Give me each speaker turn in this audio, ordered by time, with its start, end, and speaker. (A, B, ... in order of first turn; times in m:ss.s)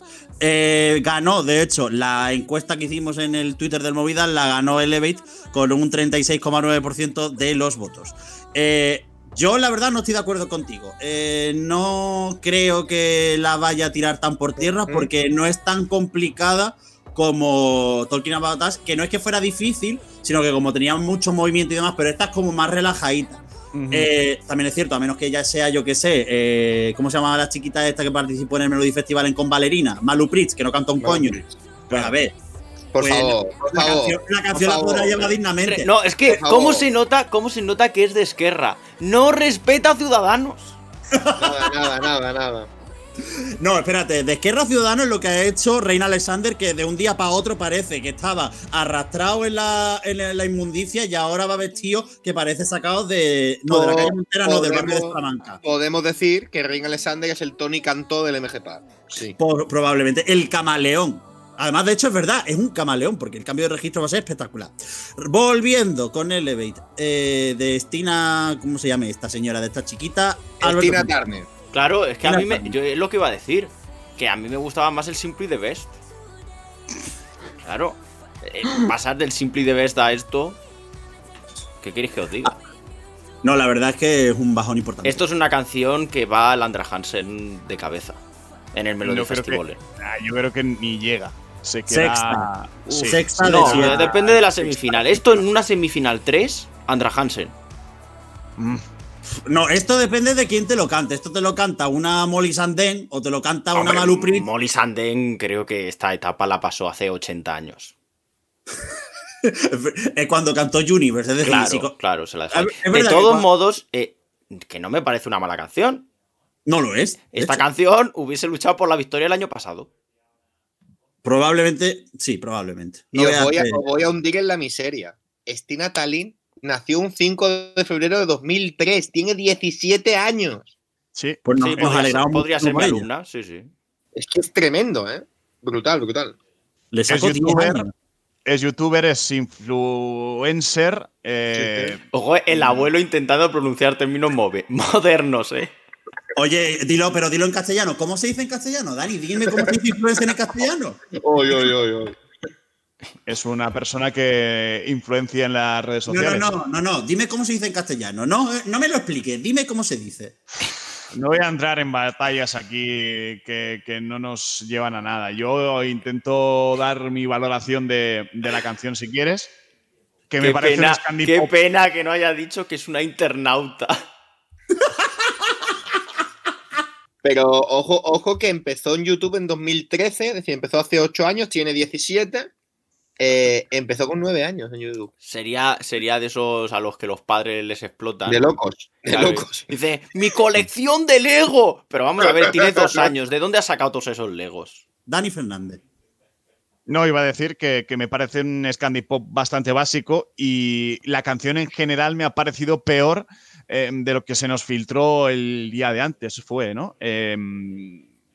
0:00.4-0:32.3 A
0:23.7-0:24.1 B
0:31.0-0:31.5 C
0:31.9-0:32.1 B
0:32.9-0:35.3 C
0:33.0-0:35.9 A
0:35.6-0:40.8 D
0:36.3-0:36.8 C
0:41.1-0:41.9 A
0:41.4-0:42.7 C
0:43.6-0:55.6 A
0:53.7-0:59.4 C
0:59.4-1:11.2 A
1:10.6-1:11.5 C
1:11.7-1:15.9 D
1:12.2-1:12.7 A
1:17.6-1:20.6 D
1:21.8-1:22.6 D
1:23.4-1:25.2 A
1:25.0-1:28.2 D
1:28.7-1:29.8 D
1:29.0-1:34.4 B
1:31.9-1:34.1 A
1:32.9-1:37.5 D
1:34.7-1:34.9 A
1:38.6-1:38.8 B
1:39.5-1:44.5 A
1:43.7-1:47.9 D
1:49.4-1:51.9 A
1:51.4-1:56.0 D
1:52.5-1:53.4 A
1:56.6-1:57.6 A
1:57.3-1:59.9 D
2:01.2-2:03.8 A
2:03.1-2:10.7 C
2:11.1-2:12.0 B
2:11.4-2:13.1 A
2:11.6-2:13.7 D
2:14.1-2:16.4 C
2:16.9-2:17.9 A
2:17.1-2:17.9 B
2:18.4-2:22.0 B
2:21.5-2:22.0 C
2:22.1-2:25.7 D
2:26.3-2:31.0 A
2:31.2-2:32.2 C
2:33.2-2:36.5 B
2:36.1-2:40.4 A
2:41.1-2:49.5 B
2:50.3-2:51.5 B
2:50.4-2:54.0 D
2:57.2-3:02.5 C
3:03.2-3:05.1 C
3:05.2-3:08.4 D
3:08.3-3:09.6 C
3:09.1-3:14.8 D
3:12.4-3:13.1 C
3:15.1-3:15.8 A
3:16.9-3:28.0 B